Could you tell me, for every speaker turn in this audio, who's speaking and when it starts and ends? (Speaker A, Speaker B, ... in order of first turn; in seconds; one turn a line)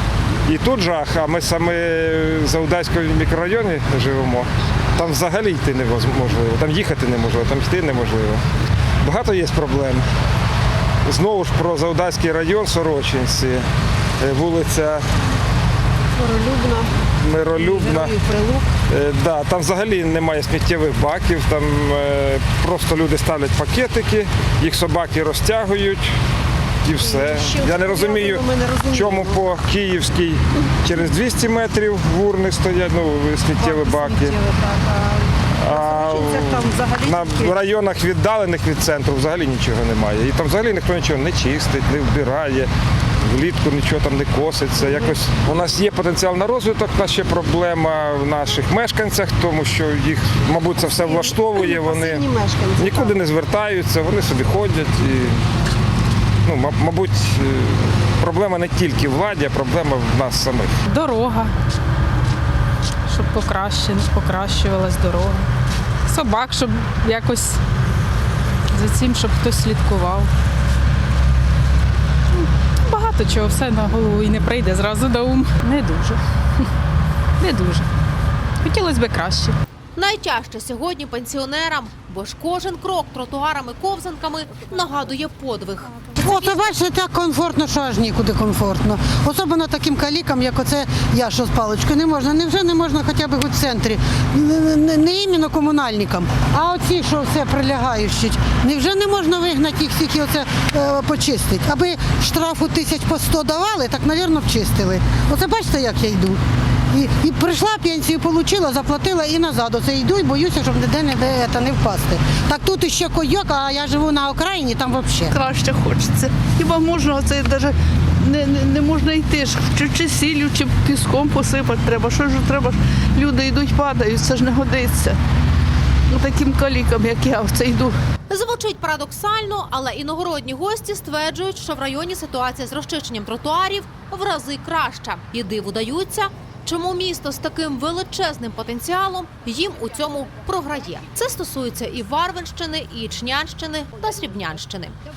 Speaker A: 0.5-8.4
Speaker A: 9.0-10.0
Speaker A: 11.1-13.7
Speaker A: 14.2-15.0
Speaker A: 17.2-18.2
Speaker A: 18.9-26.1
Speaker A: 26.8-34.4
Speaker A: 35.6-42.7
Speaker A: 43.3-55.4
Speaker A: 56.5-60.7
Speaker B: 60.9-61.5
Speaker B: 63.1-65.5
Speaker B: 66.1-67.6
Speaker B: 68.7-70.3
Speaker B: 72.8-76.2
Speaker B: 77.4-77.8
Speaker B: 78.6-79.5
Speaker C: 80.0-86.7
Speaker D: 86.2-106.4
Speaker D: 106.9-115.3
Speaker E: 115.3-125.2
Speaker E: 126.1-127.9
Speaker C: 128.3-144.9